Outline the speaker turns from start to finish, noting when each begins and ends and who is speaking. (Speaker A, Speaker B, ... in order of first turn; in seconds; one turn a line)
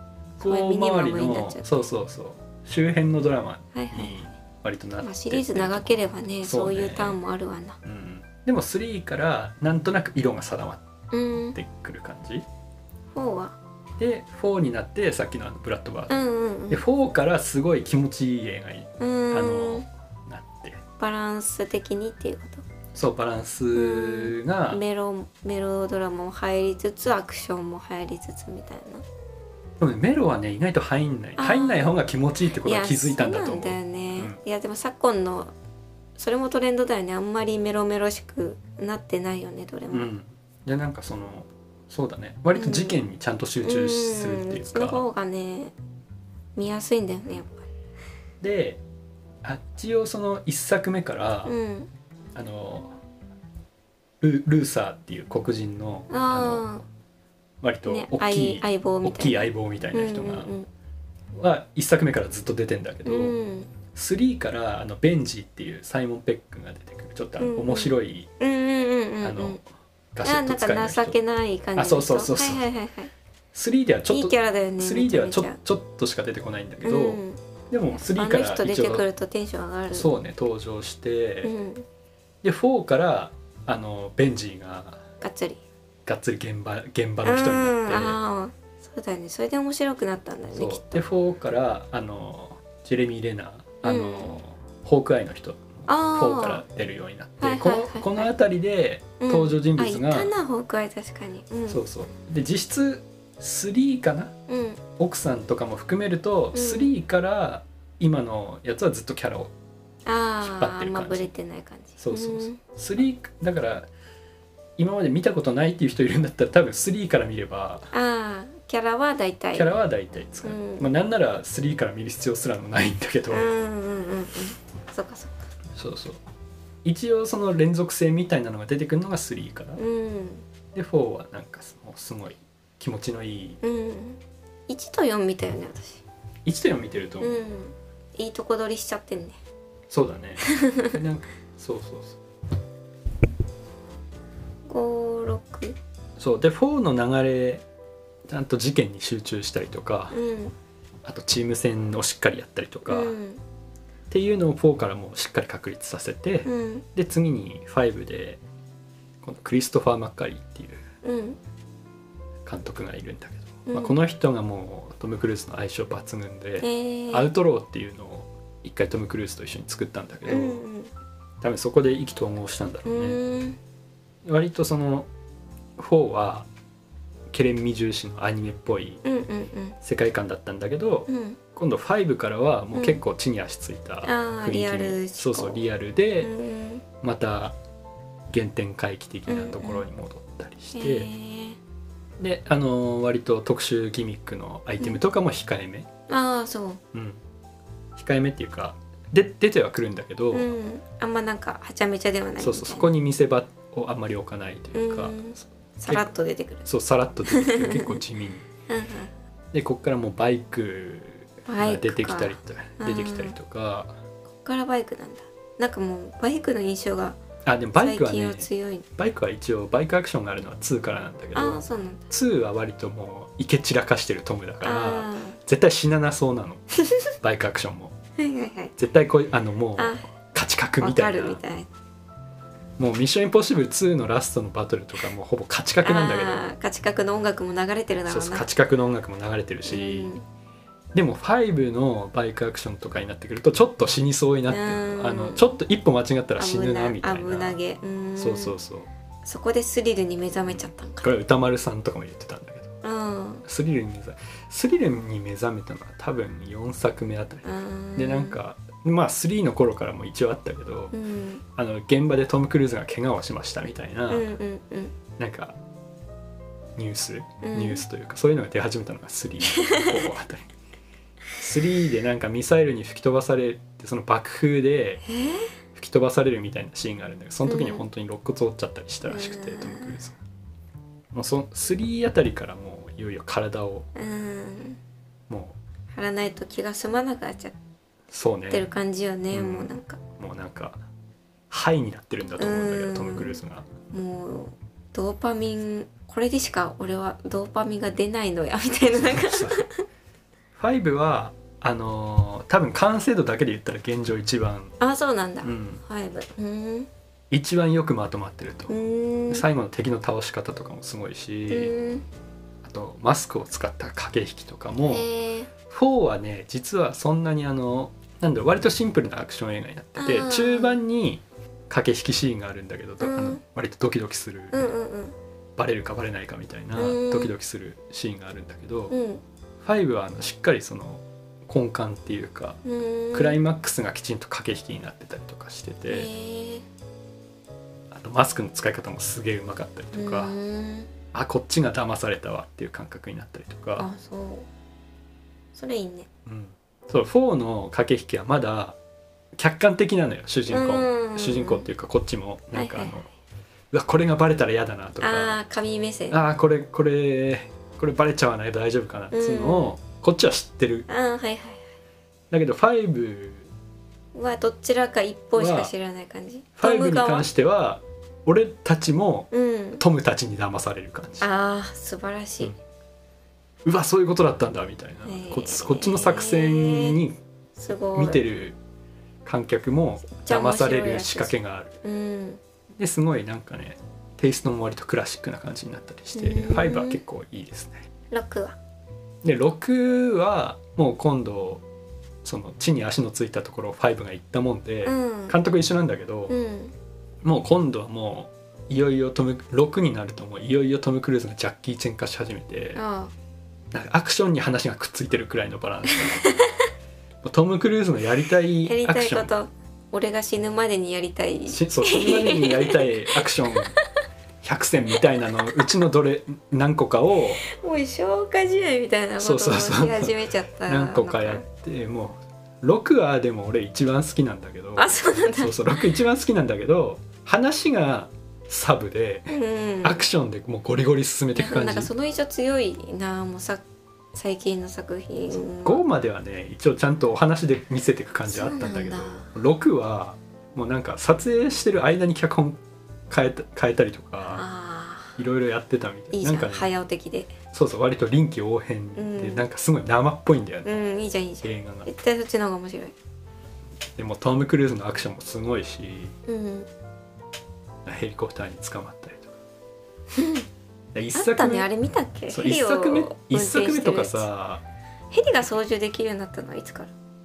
Speaker A: 0.4-7.2
Speaker B: 0.4-1.9
Speaker B: 3.7-4.2
Speaker B: 5.0-7.8
Speaker A: 7.8-10.8
Speaker B: 11.1-11.6
Speaker A: 11.5-12.4
Speaker B: 13.1-13.6
Speaker A: 14.0-20.8
Speaker B: 16.1-16.8
Speaker B: 19.0-19.9
Speaker B: 21.0-22.6
Speaker A: 22.9-24.8
Speaker B: 23.7-29.1
Speaker A: 29.8-34.4
Speaker B: 31.4-32.0
Speaker B: 32.6-35.5
Speaker B: 36.2-40.1
Speaker A: 39.9-45.1
Speaker B: 42.5-43.0
Speaker B: 43.6-45.7
Speaker B: 46.6-47.7
Speaker A: 48.4-48.8
Speaker A: 49.4-51.5
Speaker B: 51.4-51.9
Speaker A: 52.4-53.0
Speaker A: 54.2-56.7
Speaker B: 56.1-56.8
Speaker A: 57.6-60.5
Speaker B: 57.9-60.7
Speaker A: 61.4-63.4
Speaker B: 63.0-63.7
Speaker A: 63.9-68.3
Speaker B: 67.4-69.6
Speaker A: 69.2-69.6
Speaker A: 70.1-71.2
Speaker B: 70.2-73.1
Speaker A: 71.8-72.6
Speaker A: 73.5-79.1
Speaker B: 74.1-75.6
Speaker B: 76.8-77.4
Speaker B: 78.1-80.1
Speaker A: 79.9-81.5
Speaker B: 81.4-81.9
Speaker A: 82.4-85.0
Speaker B: 85.2-85.6
Speaker A: 86.1-88.2
Speaker B: 87.2-91.0
Speaker A: 90.5-100.3
Speaker B: 93.8-94.4
Speaker B: 95.9-96.6
Speaker B: 97.4-98.3
Speaker B: 99.2-101.8
Speaker A: 101.7-104.3
Speaker B: 104.5-104.8
Speaker A: 105.0-109.5
Speaker B: 106.5-106.9
Speaker B: 110.1-112.6
Speaker A: 110.4-111.3
Speaker A: 112.0-113.9
Speaker A: 114.8-117.9
Speaker B: 117.9-119.7
Speaker A: 119.5-123.5
Speaker B: 120.4-120.9
Speaker B: 123.3-125.3
Speaker A: 125.8-126.2
Speaker A: 126.8-129.8
Speaker B: 129.8-130.4
Speaker A: 130.7-133.6
Speaker B: 133.6-136.0
Speaker A: 136.4-137.4
Speaker B: 137.2-139.4
Speaker A: 139.9-142.2
Speaker B: 140.5-140.9
Speaker B: 144.7-145.8
Speaker A: 146.2-147.6
Speaker A: 148.3-150.2
Speaker B: 150.1-150.5
Speaker A: 151.0-153.1
Speaker B: 152.9-153.4
Speaker A: 154.1-158.4
Speaker B: 156.4-156.8
Speaker A: 159.2-160.8
Speaker B: 161.0-161.4
Speaker A: 162.4-170.6
Speaker B: 163.7-163.9
Speaker B: 166.6-167.3
Speaker B: 170.3-170.9
Speaker A: 171.4-173.2
Speaker B: 172.9-173.6
Speaker A: 174.2-175.1
Speaker A: 175.8-176.5
Speaker A: 177.3-179.0
Speaker B: 179.0-179.8
Speaker A: 179.8-186.3
Speaker B: 181.1-181.4
Speaker B: 182.7-183.0
Speaker B: 184.0-185.6
Speaker B: 186.2-186.8
Speaker A: 187.0-187.6
Speaker A: 188.3-191.1
Speaker B: 189.3-189.8
Speaker B: 190.7-191.6
Speaker A: 192.2-195.9
Speaker B: 196.1-196.8
Speaker A: 196.9-197.2
Speaker A: 197.9-200.5
Speaker B: 200.3-202.9
Speaker A: 202.4-206.1
Speaker B: 204.7-206.7
Speaker A: 206.6-208.4
Speaker B: 207.3-208.0
Speaker B: 208.7-209.1
Speaker A: 209.5-213.9
Speaker B: 211.5-213.3
Speaker B: 214.3-217.2
Speaker A: 217.4-227.9
Speaker B: 217.8-218.8
Speaker B: 221.3-222.1
Speaker B: 224.6-225.4
Speaker B: 228.2-228.7
Speaker A: 228.8-231.4
Speaker B: 229.8-230.1
Speaker B: 230.8-231.7
Speaker A: 232.8-236.5
Speaker B: 235.8-238.5
Speaker A: 238.1-240.1
Speaker B: 239.7-240.2
Speaker A: 240.9-247.6
Speaker B: 244.5-245.5
Speaker B: 246.4-248.6
Speaker A: 248.2-248.9
Speaker B: 249.2-251.1
Speaker A: 250.5-252.7
Speaker B: 252.8-253.4
Speaker A: 253.4-260.9
Speaker B: 257.4-258.4
Speaker B: 260.9-261.4
Speaker A: 261.6-264.3
Speaker B: 264.1-264.9
Speaker A: 265.2-265.6
Speaker A: 266.8-270.5
Speaker B: 267.4-267.8
Speaker B: 269.5-269.9
Speaker A: 271.4-275.0
Speaker B: 275.1-275.5
Speaker A: 275.7-280.2
Speaker B: 277.4-277.8
Speaker B: 279.1-280.0
Speaker A: 281.1-283.9
Speaker B: 283.9-284.8
Speaker A: 285.3-285.6
Speaker B: 285.9-287.6
Speaker A: 288.1-288.6
Speaker B: 288.5-290.0
Speaker A: 289.3-290.8
Speaker A: 291.5-293.7
Speaker B: 292.4-293.4
Speaker B: 293.9-299.8
Speaker A: 298.9-299.6
Speaker A: 300.6-304.7
Speaker B: 304.8-306.9
Speaker A: 305.4-305.8
Speaker A: 307.3-308.8
Speaker B: 308.7-309.4
Speaker A: 309.3-311.7
Speaker B: 311.5-312.1
Speaker A: 312.6-315.1
Speaker B: 314.9-315.5
Speaker A: 315.7-324.6
Speaker B: 320.0-320.8
Speaker B: 323.0-323.4
Speaker B: 324.5-325.1
Speaker A: 325.6-328.9
Speaker B: 326.8-327.3
Speaker B: 328.9-329.2
Speaker A: 329.6-332.6
Speaker B: 332.6-333.4
Speaker A: 333.1-336.1
Speaker B: 335.9-336.6
Speaker A: 337.9-340.3
Speaker B: 339.9-340.9
Speaker A: 341.1-343.9
Speaker B: 343.8-344.5
Speaker B: 345.5-346.1
Speaker A: 346.2-348.8
Speaker A: 349.4-353.1
Speaker B: 350.5-351.7
Speaker B: 352.5-353.0
Speaker A: 353.7-355.4
Speaker B: 355.0-356.2
Speaker A: 356.1-360.9
Speaker B: 359.1-359.8
Speaker B: 360.9-361.6
Speaker A: 362.3-363.5
Speaker B: 364.1-367.3
Speaker A: 365.4-365.7
Speaker A: 366.6-371.3
Speaker B: 369.3-369.8
Speaker B: 371.2-372.5
Speaker A: 373.6-377.2
Speaker B: 375.1-377.0
Speaker B: 377.6-378.2
Speaker A: 377.9-378.6
Speaker A: 379.2-381.8
Speaker B: 380.2-382.4
Speaker A: 382.8-387.9
Speaker B: 386.1-387.0
Speaker B: 388.1-388.6
Speaker A: 389.2-391.6
Speaker A: 392.2-396.4
Speaker B: 394.9-395.4
Speaker B: 396.3-396.7
Speaker A: 397.2-402.8
Speaker B: 402.7-403.1
Speaker A: 403.7-406.3
Speaker B: 406.1-406.4
Speaker A: 407.2-409.3
Speaker B: 408.6-413.8
Speaker A: 411.5-413.8
Speaker A: 414.4-417.4
Speaker B: 417.4-421.4
Speaker A: 419.2-431.9
Speaker B: 424.8-425.9
Speaker B: 429.3-430.1
Speaker B: 431.4-433.6
Speaker B: 434.1-435.8
Speaker A: 435.3-442.6
Speaker B: 438.3-439.3
Speaker A: 443.1-444.4
Speaker B: 444.2-445.2
Speaker A: 445.2-446.7
Speaker B: 446.1-447.3
Speaker A: 447.5-450.8
Speaker B: 448.9-449.4
Speaker B: 450.6-452.9
Speaker A: 451.4-451.9
Speaker A: 454.0-456.1
Speaker B: 456.3-456.7
Speaker A: 457.9-459.4
Speaker B: 460.1-460.5
Speaker A: 460.9-461.7
Speaker B: 461.1-464.2
Speaker A: 462.3-464.6
Speaker B: 465.1-466.9